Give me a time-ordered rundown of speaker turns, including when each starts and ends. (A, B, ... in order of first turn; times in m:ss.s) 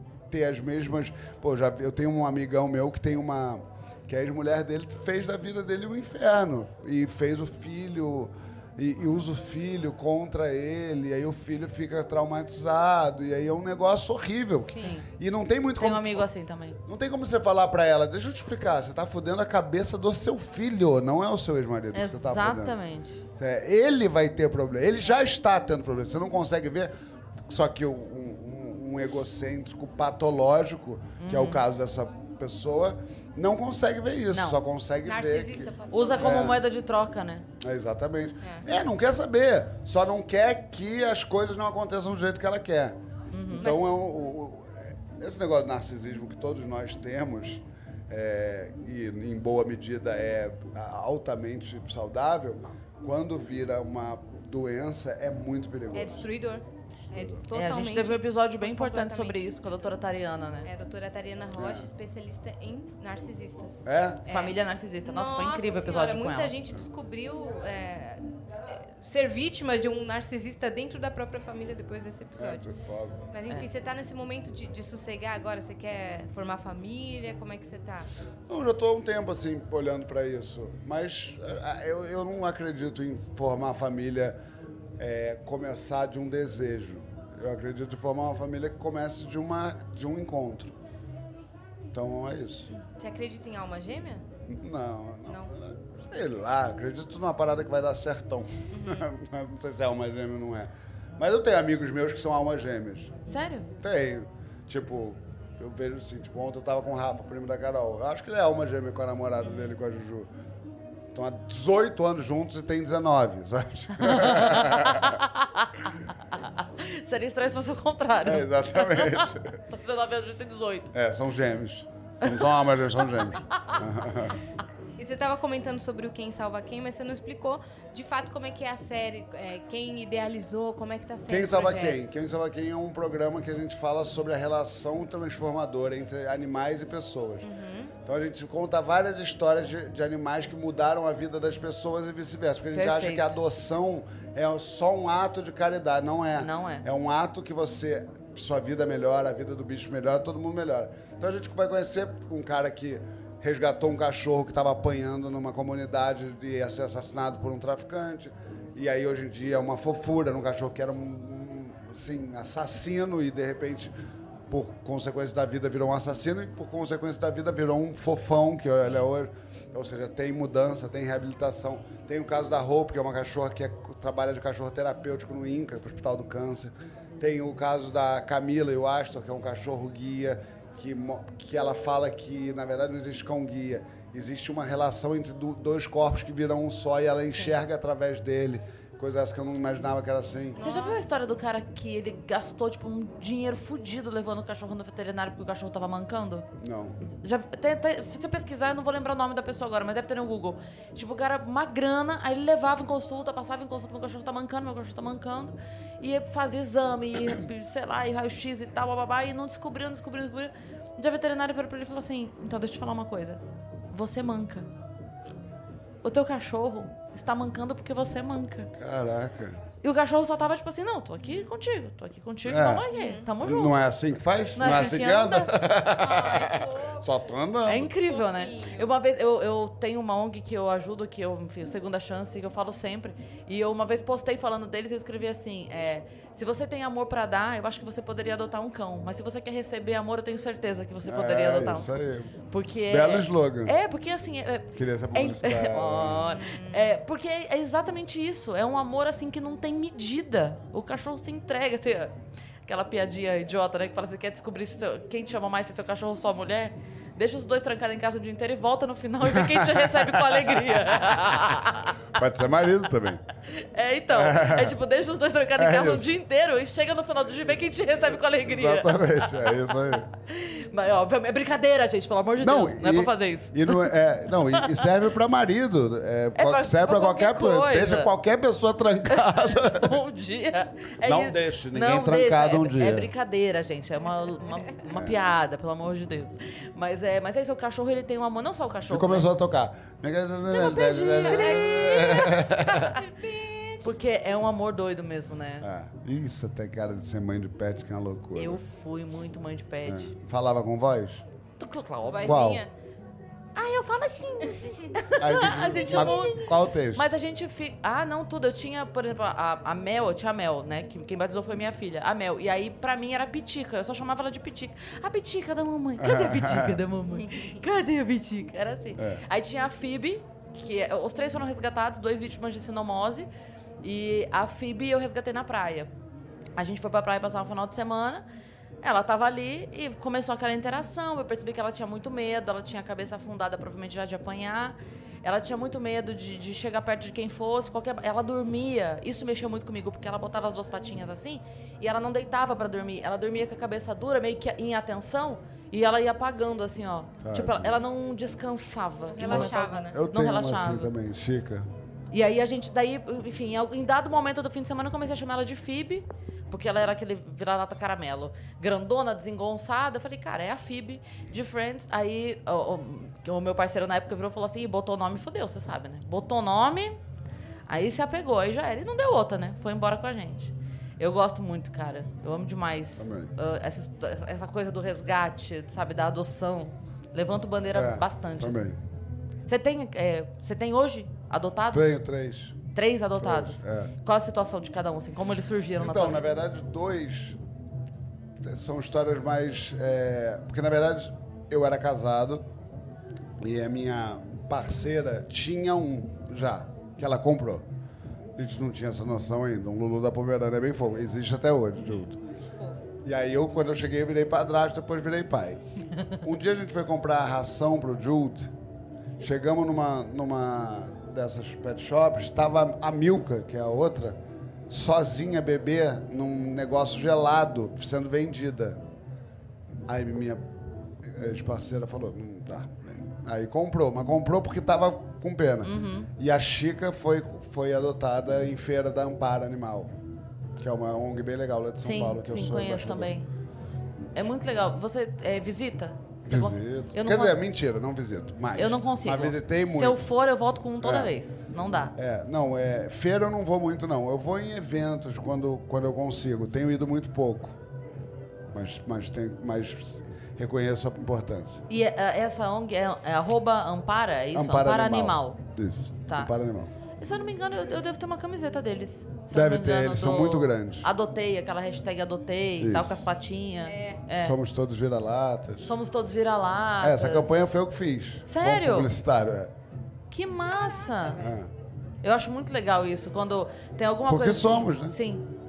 0:00.3-0:16.3 A
0:14.7-0:15.0 B
0:14.7-0:15.1 C
0:15.8-0:16.8 C
0:16.8-0:22.7 A
0:21.9-0:23.2 C
0:23.4-0:26.9 A
0:27.4-0:36.6 A
0:31.2-0:31.6 C
0:34.3-0:34.6 C
0:35.0-0:36.5 B
0:35.9-0:37.4 C
0:37.6-0:43.0 A
0:43.3-0:43.8 C
0:43.5-0:56.3 A
0:43.6-0:43.9 B
0:55.9-0:59.6 B
0:57.1-0:57.4 A
0:57.5-1:00.7 C
1:00.6-1:12.6 B
1:01.6-1:01.9 A
1:03.8-1:04.3 A
1:04.2-1:06.5 C
1:12.4-1:13.2 A
1:13.3-1:18.1 B
1:18.5-1:24.4 A
1:25.0-1:30.8 A
1:31.9-1:32.7 A
1:32.7-1:34.2 B
1:34.5-1:43.1 A
1:38.7-1:39.1 B
1:43.3-1:43.7 C
1:43.8-1:50.3 A
1:51.1-1:55.2 A
1:54.0-2:00.9 C
1:58.2-1:59.6 A
2:00.9-2:04.4 A
2:02.2-2:02.5 C
2:05.0-2:12.0 B
2:11.3-2:17.5 A
2:17.4-2:17.9 B
2:18.0-2:43.9 A
2:22.7-2:23.3 C
2:26.4-2:26.8 C
2:44.5-3:10.6 A
3:10.6-3:11.1 B
3:10.6-3:16.5 C
3:16.6-3:17.0 A
3:17.2-3:33.4 C
3:33.9-3:34.7 C
3:36.0-3:38.7 C
3:38.8-3:39.6 A
3:39.8-3:43.8 C
3:42.4-3:42.8 A
3:42.9-3:43.3 B
3:43.4-3:47.9 A
3:44.6-3:45.5 C
3:46.0-3:47.0 B
3:47.6-4:01.9 C
3:47.9-3:48.9 B
4:01.0-4:02.3 A
4:02.5-4:12.1 C
4:02.9-4:03.7 A
4:04.8-4:06.3 A
4:06.3-4:07.0 B
4:12.6-4:22.1 C
4:19.2-4:21.4 A
4:22.1-4:23.2 A
4:23.5-4:34.9 C
4:24.1-4:24.8 A
4:25.6-4:26.1 A
4:28.4-4:30.1 A
4:32.4-4:40.0 A
4:36.3-4:38.1 C
4:39.1-4:49.3 C
4:41.0-4:43.1 A
4:44.9-4:45.2 A
4:48.9-4:53.0 A
4:50.5-4:52.4 C
4:51.2-4:53.9 B
4:53.8-4:55.6 C
4:55.6-4:58.6 A
4:58.3-5:00.1 C
4:59.8-5:01.2 A
5:01.6-5:02.6 C
5:02.0-5:02.7 B
5:02.2-5:02.6 A
5:03.5-5:23.3 C
5:05.2-5:07.1 A
5:05.5-5:06.5 B
5:16.0-5:16.8 A
5:19.0-5:19.2 A
5:23.8-5:25.9 C
5:26.6-5:28.2 C
5:28.8-5:50.9 C
5:47.2-5:47.7 A
5:49.1-5:49.9 B
5:49.2-5:51.7 A
5:52.1-6:07.0 C
6:07.7-6:18.6 C
6:13.0-6:13.3 A
6:17.7-6:18.8 A
6:19.5-6:22.0 C
6:21.7-6:22.6 A
6:22.7-6:26.2 C
6:23.2-6:23.9 A
6:25.8-6:27.4 A
6:28.4-6:32.4 A
6:33.4-6:37.6 A
6:38.4-6:42.2 A
6:43.0-6:45.6 A
6:46.2-6:48.5 A
6:49.2-6:54.2 A
6:54.7-6:58.8 A
6:59.9-7:00.5 A
7:01.0-7:10.0 A
7:05.6-7:06.1 C
7:10.6-7:13.1 A
7:11.8-7:13.3 C
7:14.1-7:17.4 C
7:16.3-7:20.1 A
7:18.6-7:21.9 C
7:20.8-7:21.1 A
7:21.9-7:27.6 A
7:28.5-7:31.6 A
7:31.7-7:35.4 C
7:34.3-7:36.7 A
7:37.0-7:44.4 C
7:39.3-7:40.9 A
7:42.6-7:43.1 A
7:43.6-7:44.0 B
7:44.1-7:45.8 A
7:45.6-7:47.4 C
7:46.8-7:49.5 A
7:48.2-7:48.9 C
7:50.1-7:51.2 C
7:50.9-7:51.3 B
7:51.2-7:51.5 A
7:52.0-7:55.3 C
7:54.1-7:55.0 A